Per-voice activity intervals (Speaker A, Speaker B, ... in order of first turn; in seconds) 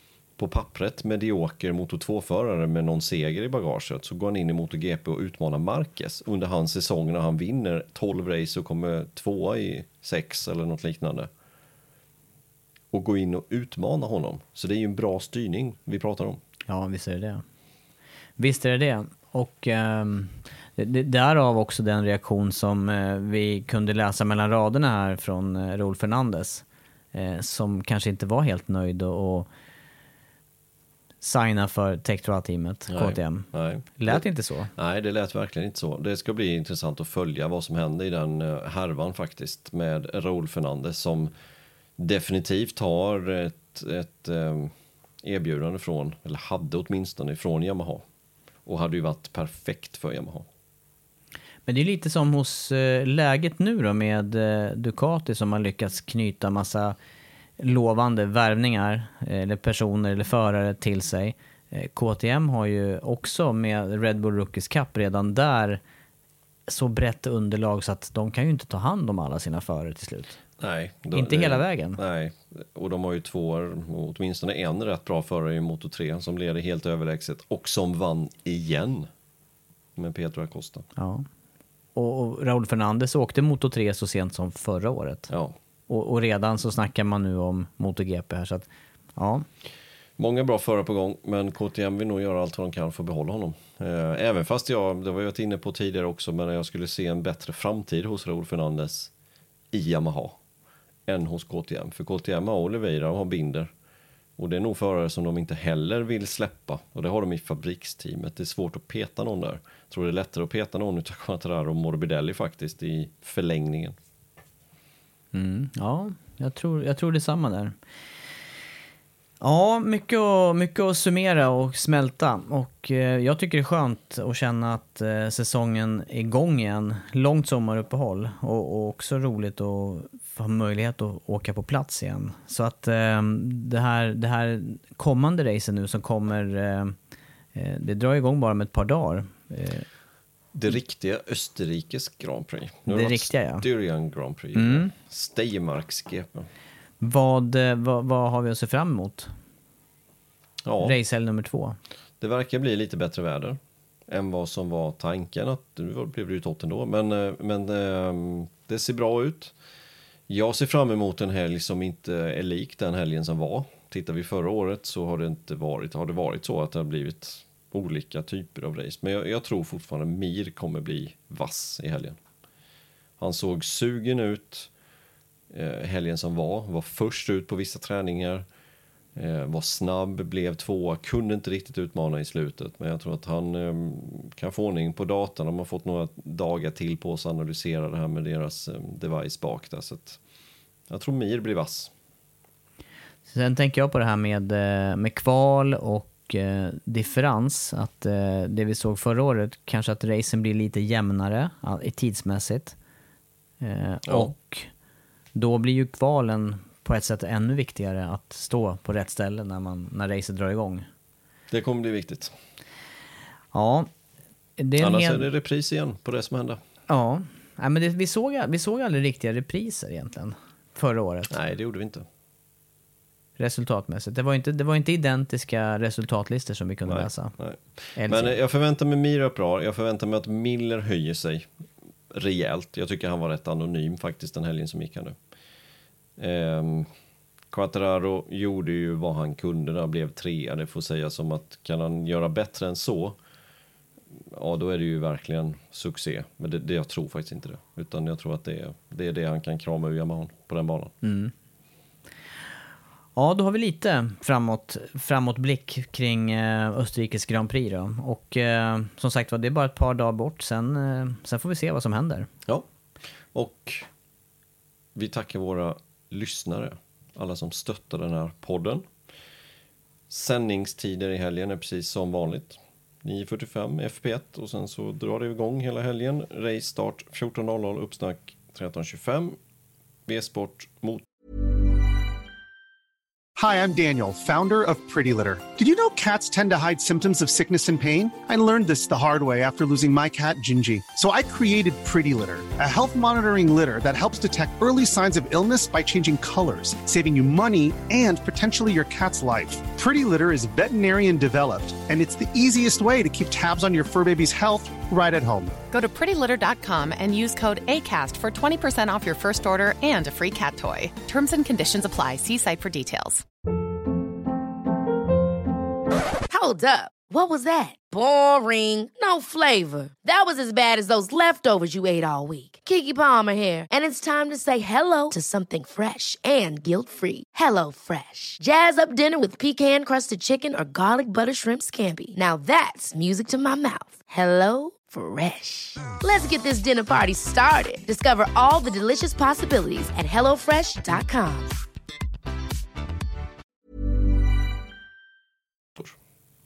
Speaker A: 0.4-11.3, 12.9-16.4, 32.9-41.3, 42.0-48.0, 48.7-50.5, 70.6-79.1, 80.0-80.9, 85.3-85.5, 90.2-99.1, 99.7-100.4, 101.1-103.7, 104.4-114.0, 140.5-146.5, 150.7-151.0, 152.2-159.5, 160.3-172.2, 173.2-174.7, 175.5-178.5, 179.2-190.2, 190.9-191.9, 204.1-204.3, 211.5-212.3, 214.8-216.6, 221.3-222.1, 226.9-231.5, 232.1-235.2, 236.2-236.9, 237.5-243.2, 244.1-250.9, 263.3-263.9, 264.9-268.9, 270.1-279.4, 280.1-281.1
Speaker B: 16.7-17.4, 18.4-29.5, 31.2-34.7, 51.7-57.0, 57.6-65.8, 66.7-70.4, 71.1-72.0, 81.0-81.3, 82.0-85.3, 85.9-89.5, 115.3-117.8, 119.4-136.9, 137.6-139.9, 142.9-143.7, 144.6-144.9, 147.0-149.3, 150.8-151.8, 193.3-202.8, 203.6-204.7, 205.3-210.9, 213.5-213.9, 214.6-215.3, 216.9-221.3, 223.4-227.3, 228.0-228.3, 251.0-251.3, 253.2-262.3
Speaker C: 283.4-305.6
Speaker D: 305.7-313.2
Speaker E: 316.3-341.5